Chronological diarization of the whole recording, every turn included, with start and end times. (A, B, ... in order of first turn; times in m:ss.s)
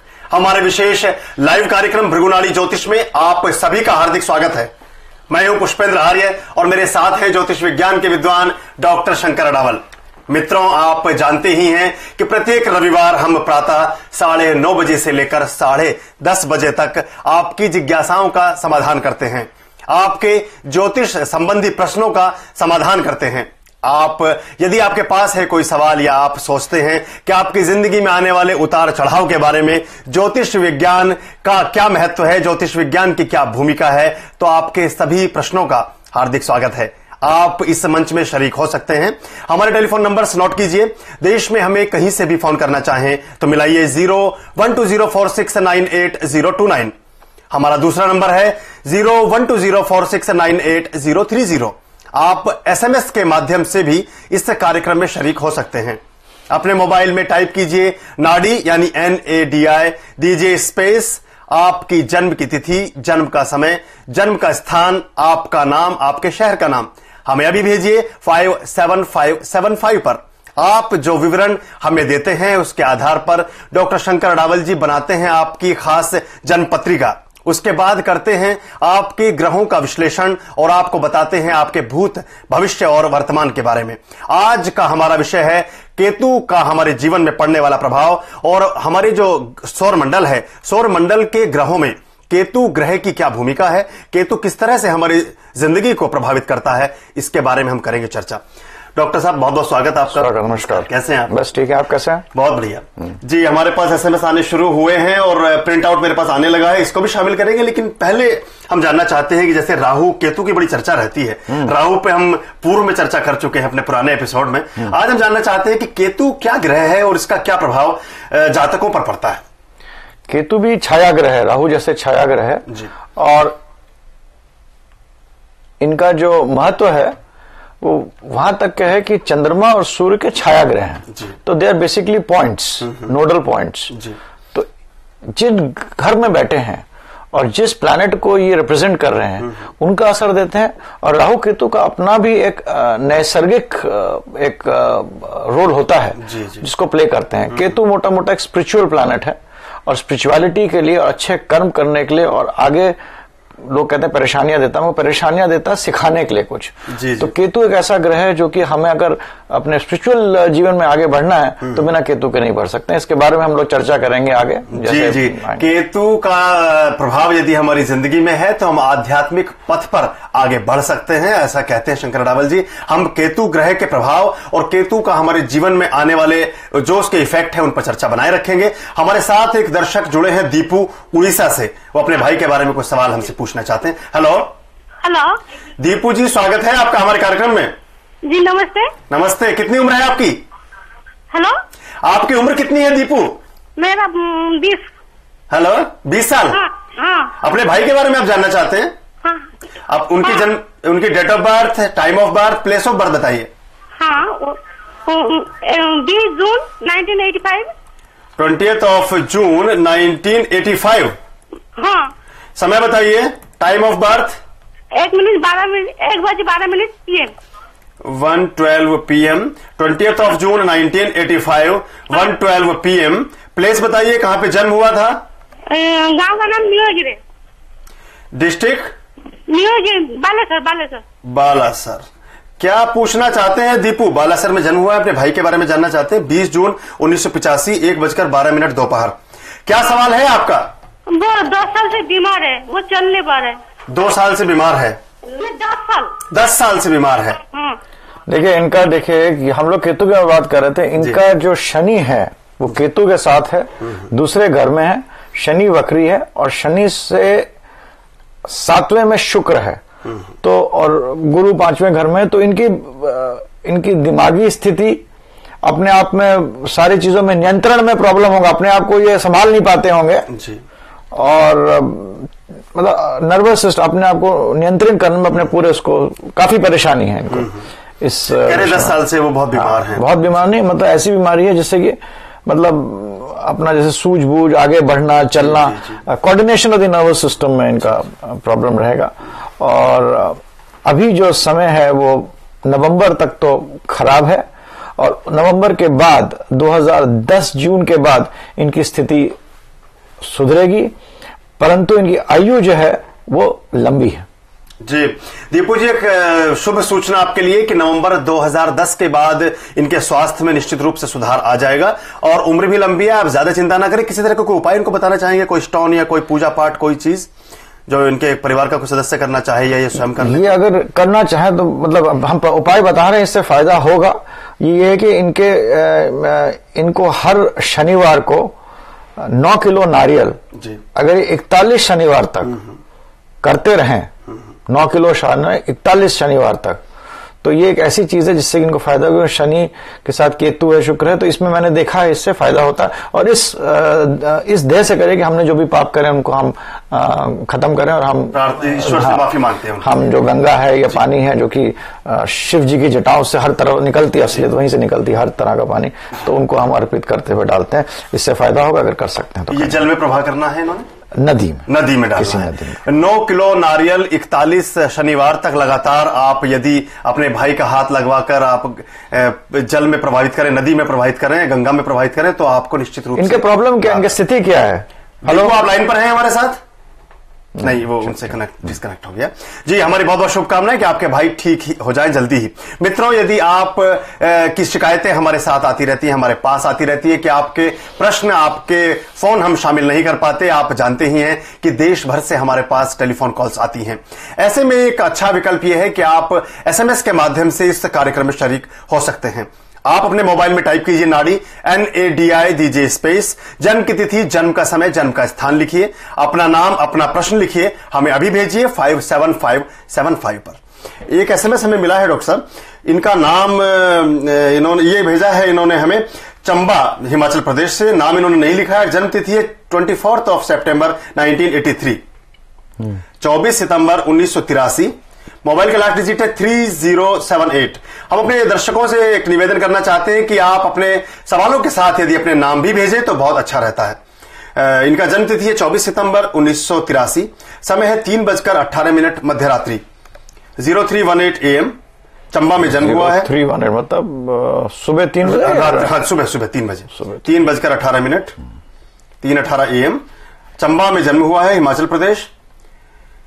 0:00.3-0:04.7 A
0:05.3-0:46.9 A
0:47.5-1:38.4 A
1:39.0-1:41.3 A
1:40.1-1:42.2 B
1:42.3-1:59.4 A
2:00.3-2:03.6 B
2:05.8-2:07.1 B
2:07.8-2:14.0 B
2:15.3-2:33.0 B
2:26.2-2:26.7 A
2:33.6-2:45.6 B
2:36.9-2:37.3 A
2:44.7-3:04.5 A
3:05.0-3:05.4 C
3:05.8-3:07.8 A
3:08.2-3:08.9 C
3:09.1-3:10.4 A
3:11.3-3:11.6 C
3:12.0-3:13.4 A
3:13.8-3:14.9 C
3:15.5-3:16.7 A
3:16.5-3:17.4 C
3:17.4-3:18.9 A
3:19.2-3:19.5 C
3:19.9-3:23.5 A
3:24.0-3:27.7 C
3:28.4-3:31.2 A
3:31.8-3:32.1 C
3:32.6-3:34.4 A
3:34.9-3:37.3 C
3:38.0-3:45.2 A
3:45.7-3:47.2 C
3:48.3-3:48.9 A
3:49.5-3:51.0 C
3:51.2-3:52.0 A
3:52.6-4:00.7 A
4:01.1-4:03.6 C
4:03.9-4:05.0 A
4:05.2-4:06.2 C
4:06.3-4:07.4 A
4:07.5-4:07.8 C
4:08.3-4:17.5 B
4:18.5-4:19.8 B
4:20.4-4:25.0 B
4:25.6-4:30.3 B
4:30.3-4:30.6 A
4:31.1-4:39.0 B
4:38.4-4:40.1 A
4:39.5-4:54.5 B
4:45.4-4:46.0 A
4:55.0-4:59.3 B
5:00.2-5:00.9 B
5:01.6-5:04.2 B
5:04.8-5:17.3 A
5:17.9-5:20.6 A
5:20.2-5:28.6 B
5:29.2-5:30.4 B
5:31.0-5:32.6 B
5:33.4-5:34.1 B
5:34.7-5:36.8 B
5:37.4-5:49.2 B
5:48.3-5:51.1 A
5:49.8-5:59.8 B
5:59.5-6:00.9 A
6:01.2-6:02.8 B
6:01.7-6:14.2 A
6:13.2-6:15.6 B
6:15.2-6:16.6 A
6:17.6-7:02.0 A
7:03.2-7:14.0 A
7:14.6-7:19.8 A
7:20.6-7:21.8 A
7:22.3-7:23.3 A
7:22.7-7:25.9 B
7:25.2-7:28.4 A
7:29.2-7:30.0 A
7:30.6-7:32.3 A